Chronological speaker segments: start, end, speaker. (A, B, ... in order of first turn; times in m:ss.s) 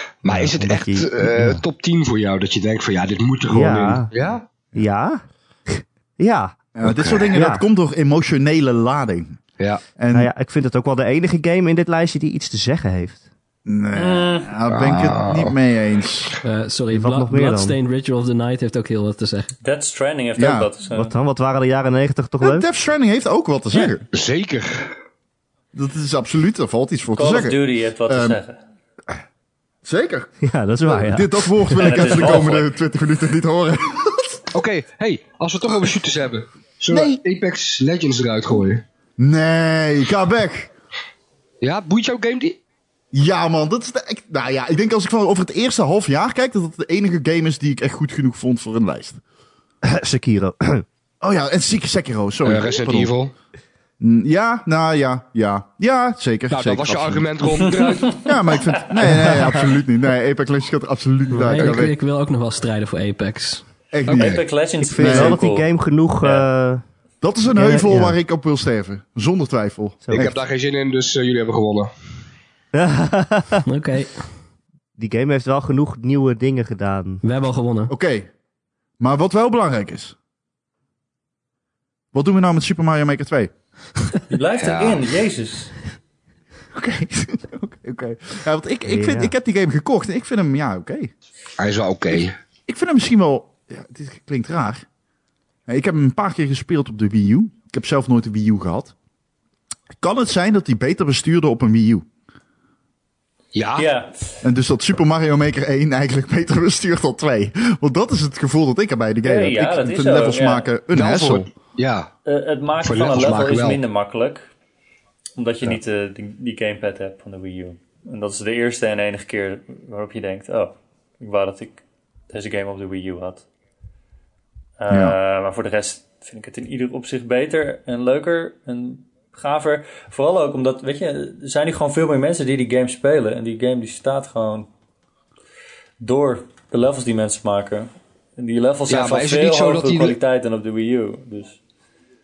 0:00.2-0:04.4 A
0:00.3-0:01.6 B
0:03.5-0:04.1 B
0:04.7-0:06.7 B
0:06.8-0:09.4 C
0:06.8-0:07.3 A
0:07.3-0:07.6 B
0:10.0-0:10.3 C
0:10.1-0:13.2 B
0:13.6-0:16.3 C
0:13.9-0:14.5 D
0:14.7-0:15.6 A
0:16.4-0:19.5 E
0:16.9-0:17.8 B
0:19.6-0:21.1 D
0:20.4-0:20.7 C
0:20.9-0:22.7 B
0:22.4-0:24.1 C
0:24.1-0:24.9 A
0:25.7-0:28.4 C
0:27.1-0:28.6 D
0:29.8-0:30.3 C
0:30.4-0:32.1 B
0:30.8-0:34.4 C
0:31.7-0:32.7 D
0:34.5-0:38.8 A
0:36.9-0:37.2 C
0:39.2-0:40.7 C
0:41.6-0:42.6 A
0:43.1-0:49.2 C
0:49.8-0:50.8 B
0:51.2-0:53.1 C
0:52.4-0:53.3 A
0:54.0-0:57.3 C
0:56.5-0:58.3 A
0:58.1-1:01.9 C
1:01.3-1:03.6 E
1:03.9-1:04.4 C
1:04.1-1:04.4 A
1:04.1-1:05.7 D
1:04.8-1:06.8 B
1:05.0-1:05.4 C
1:06.2-1:06.5 D
1:07.2-1:10.3 C
1:07.5-1:08.2 B
1:10.0-1:10.3 B
1:10.1-1:11.9 A
1:12.7-1:13.6 B
1:13.6-1:14.2 E
1:15.0-1:17.2 B
1:17.2-1:17.9 E
1:17.9-1:18.3 C
1:19.0-1:20.1 C
1:22.1-1:23.5 C
1:24.3-1:25.7 D
1:24.6-1:25.0 A
1:26.7-1:31.1 C
1:28.8-1:29.3 B
1:31.6-1:32.4 A
1:32.7-1:34.8 C
1:35.7-1:38.9 C
1:40.0-1:42.0 C
1:43.5-1:43.9 A
1:43.8-1:44.2 D
1:44.4-1:51.5 C
1:49.2-1:50.7 D
1:50.9-1:52.1 A
1:52.2-1:54.4 D
1:52.8-1:53.8 A
1:55.4-2:03.4 D
2:04.8-2:14.7 D
2:04.9-2:05.1 C
2:16.0-2:21.6 D
2:18.9-2:20.2 A